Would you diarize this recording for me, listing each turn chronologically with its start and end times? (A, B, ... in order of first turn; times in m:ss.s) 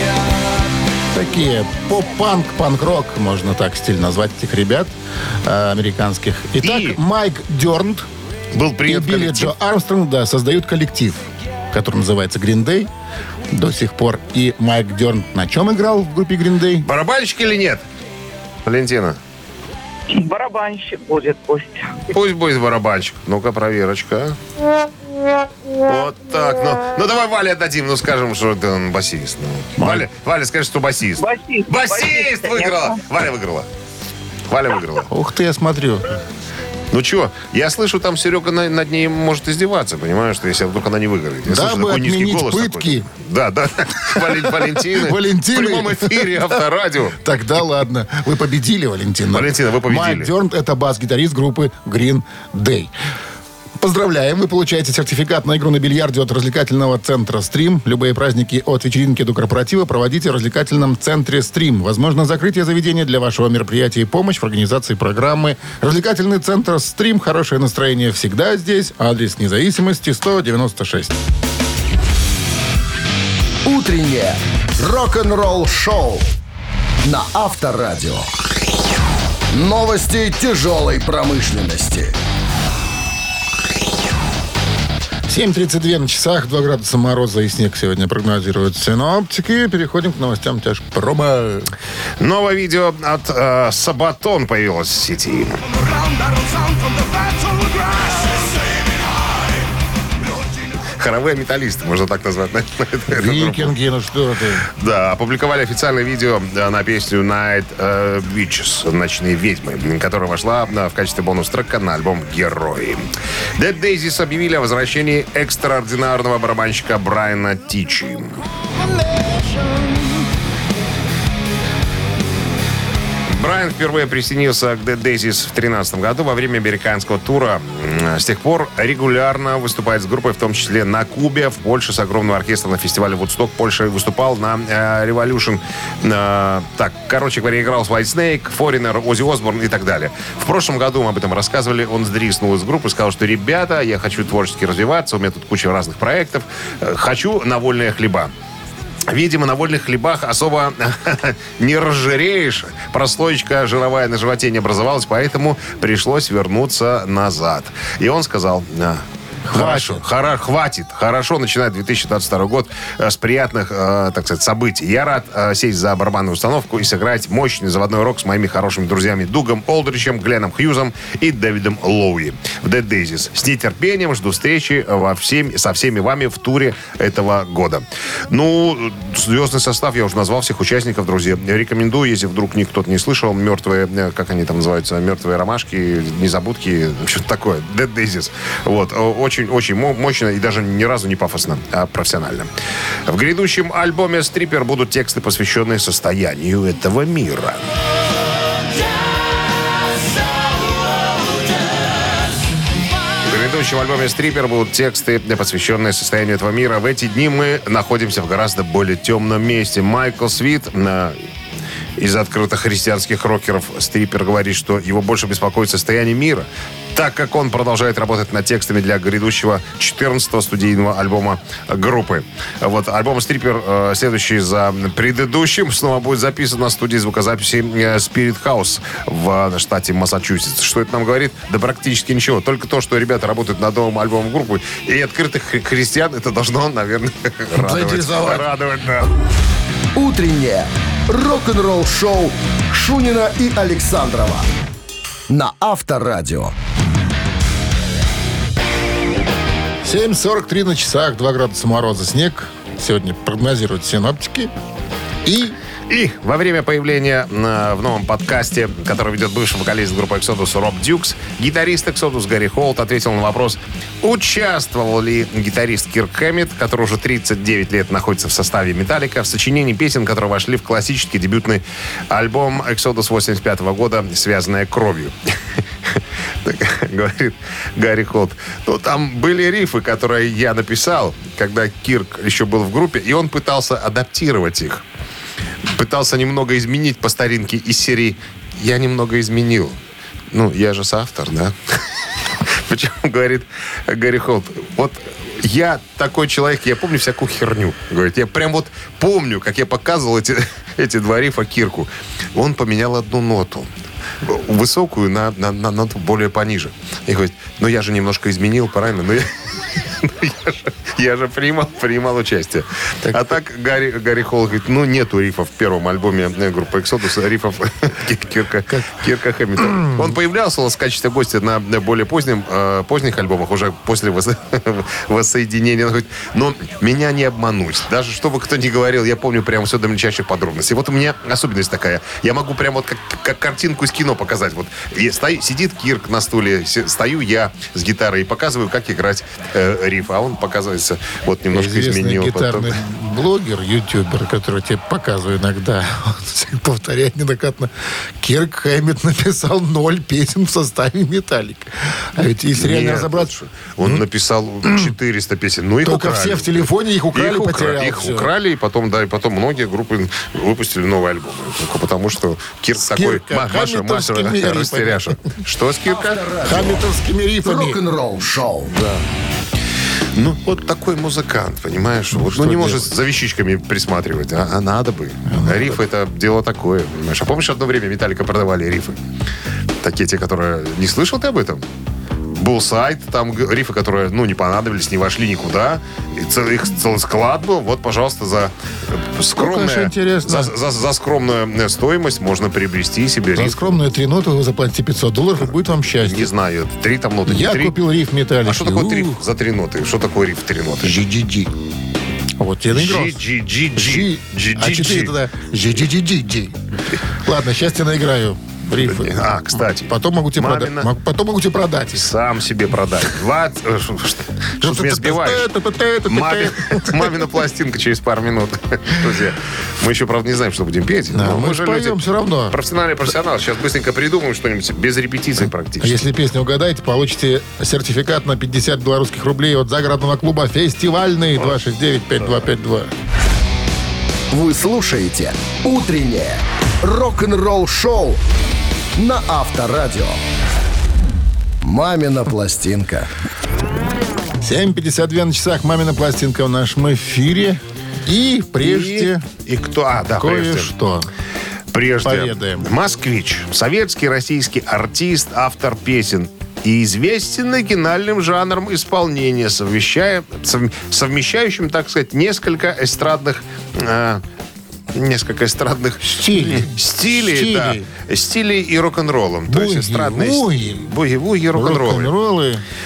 0:01.1-0:08.1 A
0:06.6-0:07.0 B
0:08.5-0:09.5 B
0:08.9-0:12.9 A
0:13.5-0:16.9 A
0:16.8-0:17.8 B
0:18.6-0:19.2 B
0:20.1-0:22.0 C
0:22.1-0:24.4 B
0:25.8-0:33.7 B
0:29.8-0:30.1 A
0:31.2-0:33.0 C
0:34.5-0:35.1 B
0:35.1-0:36.1 A
0:36.9-0:47.2 B
0:41.5-0:43.1 A
0:44.1-0:46.5 A
0:47.2-0:52.9 A
0:49.3-0:50.3 B
0:53.8-1:11.2 A
1:13.6-1:16.3 D
1:17.0-1:18.3 D
1:19.5-1:22.1 D
1:25.3-1:31.7 A
1:32.2-1:35.6 B
1:37.2-1:38.3 B
1:41.0-1:43.8 B
1:43.1-1:44.7 A
1:44.7-1:58.4 B
2:03.3-2:28.3 B
2:29.1-3:12.5 B
2:39.4-2:40.0 A
3:13.1-3:17.6 B
3:23.2-3:31.2 B
3:32.0-3:59.1 B
3:57.5-3:58.5 A
3:59.9-4:04.5 D
4:05.3-4:06.5 D
4:09.8-4:14.5 A
4:15.2-4:15.6 A
4:15.9-4:35.1 B
4:35.9-4:44.8 B
4:45.7-4:49.8 B
4:50.3-4:51.8 B
4:52.4-5:03.7 B
5:04.2-5:42.8 B
5:13.0-5:13.4 A
5:18.7-5:19.0 A
5:19.6-5:20.1 A
5:41.5-5:54.0 A
5:52.5-6:06.2 B
5:54.6-5:54.9 A
5:55.8-5:58.3 A
6:02.8-6:05.2 A
6:05.8-6:06.8 D
6:06.4-6:07.8 A
6:07.4-6:08.7 D
6:08.7-6:09.0 B
6:10.2-6:19.0 B
6:12.1-6:12.9 A
6:15.3-6:15.8 A
6:19.8-6:21.6 B
6:22.3-6:33.8 B
6:29.4-6:30.5 A
6:33.3-6:36.3 A
6:35.9-6:37.7 B
6:37.3-6:39.2 A
6:38.4-6:41.0 B
6:40.8-6:41.5 A
6:42.4-6:43.2 A
6:42.7-6:45.2 B
6:43.8-6:46.6 A
6:47.2-6:49.2 A
6:48.8-6:50.9 B
6:49.9-6:52.1 A
6:51.9-6:55.4 B
6:54.6-6:57.3 A
6:56.1-7:06.0 B
7:01.1-7:02.6 A
7:05.8-7:12.9 A
7:14.3-7:18.2 D
7:19.0-7:20.2 D
7:21.6-7:23.1 D
7:24.4-7:29.2 A
7:28.6-7:30.7 B
7:30.2-7:31.1 A
7:31.7-7:44.2 B
7:32.0-7:32.7 A
7:44.9-7:52.1 B
7:46.0-7:47.9 A
7:49.5-7:50.9 A
7:51.5-7:52.6 A